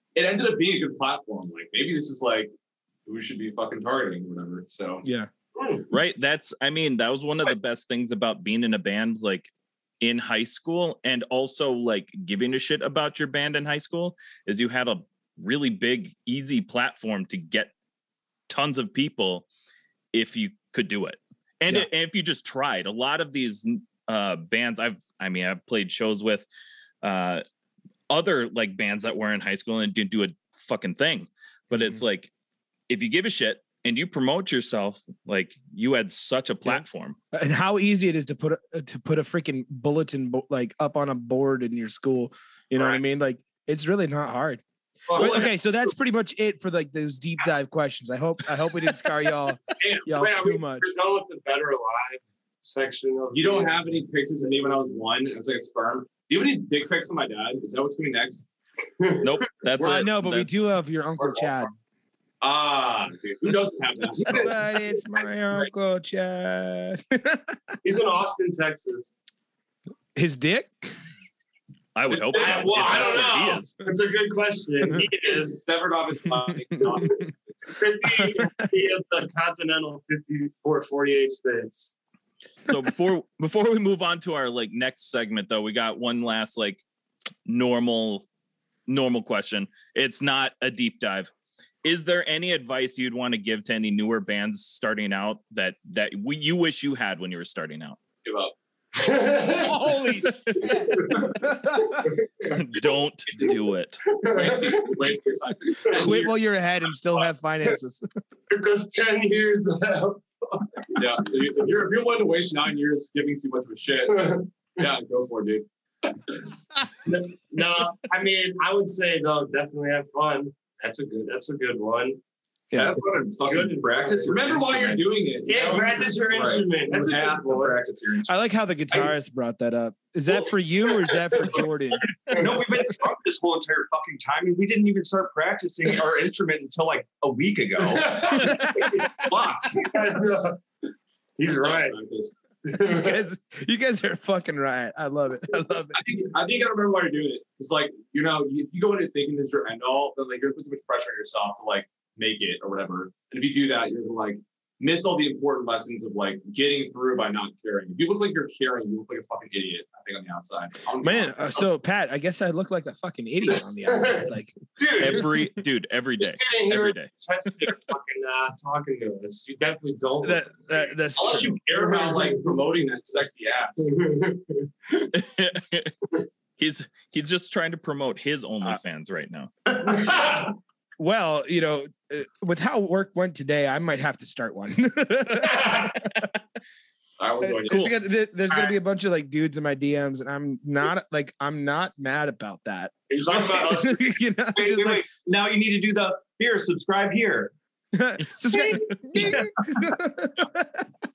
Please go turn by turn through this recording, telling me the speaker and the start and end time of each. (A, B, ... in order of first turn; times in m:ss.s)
0:00.1-0:02.5 A
0:03.0-0:05.0 A
0:05.0-0:05.3 B
0:05.6-0:05.8 C
0:05.9-0:17.7 D
0:18.5-0:19.4 D
0:20.1-0:26.4 D
0:27.0-0:27.4 D
0:28.1-0:32.3 D
0:31.7-0:32.0 B
0:32.9-0:37.2 D
0:37.3-0:44.6 B
0:42.7-0:43.0 C
0:45.1-0:45.5 C
0:45.2-0:45.5 E
0:45.2-0:50.9 B
0:49.8-0:53.8 C
0:53.3-0:58.4 A
0:59.0-0:59.3 C
0:59.2-1:00.6 D
0:59.8-1:01.7 B
1:01.2-1:01.6 A
1:02.4-1:04.6 A
1:04.2-1:07.8 B
1:07.8-1:09.0 C
1:10.2-1:10.9 B
1:11.9-1:13.7 D
1:12.1-1:15.6 C
1:12.8-1:13.3 A
1:15.2-1:17.7 A
1:16.8-1:21.9 C
1:18.2-1:18.7 B
1:22.6-1:26.8 D
1:27.4-1:28.2 D
1:28.9-1:31.3 D
1:31.8-1:38.0 D
1:38.2-1:38.5 A
1:38.9-1:39.8 C
1:39.6-1:42.1 B
1:40.6-1:42.6 C
1:42.4-1:44.0 D
1:44.1-1:45.0 C
1:44.2-1:46.4 A
1:45.9-1:48.0 B
1:48.5-1:51.0 C
1:50.9-1:55.6 A
1:54.1-1:54.4 C
1:57.0-2:02.2 C
2:02.7-2:03.0 B
2:02.7-2:08.4 E
2:03.4-2:04.4 C
2:04.2-2:06.4 A
2:05.4-2:07.8 C
2:08.3-2:12.1 B
2:12.3-2:19.9 E
2:17.8-2:20.6 C
2:21.4-2:22.0 C
2:21.4-2:22.3 A
2:22.6-2:23.2 C
2:22.8-2:26.0 B
2:25.9-2:41.6 A
2:41.0-2:45.2 B
2:43.9-2:44.2 C
2:44.8-2:45.3 C
2:45.0-2:47.1 D
2:46.2-2:52.6 C
2:50.2-2:51.6 B
2:51.1-2:53.9 A
2:53.8-2:55.1 C
2:55.1-2:56.0 D
2:56.6-2:59.5 D
2:59.8-3:00.5 C
3:01.0-3:06.1 B
3:05.5-3:05.8 C
3:07.2-3:07.9 A
3:07.4-3:15.0 B
3:08.5-3:08.8 C
3:13.1-3:14.2 C
3:14.5-3:17.5 E
3:17.9-3:20.8 B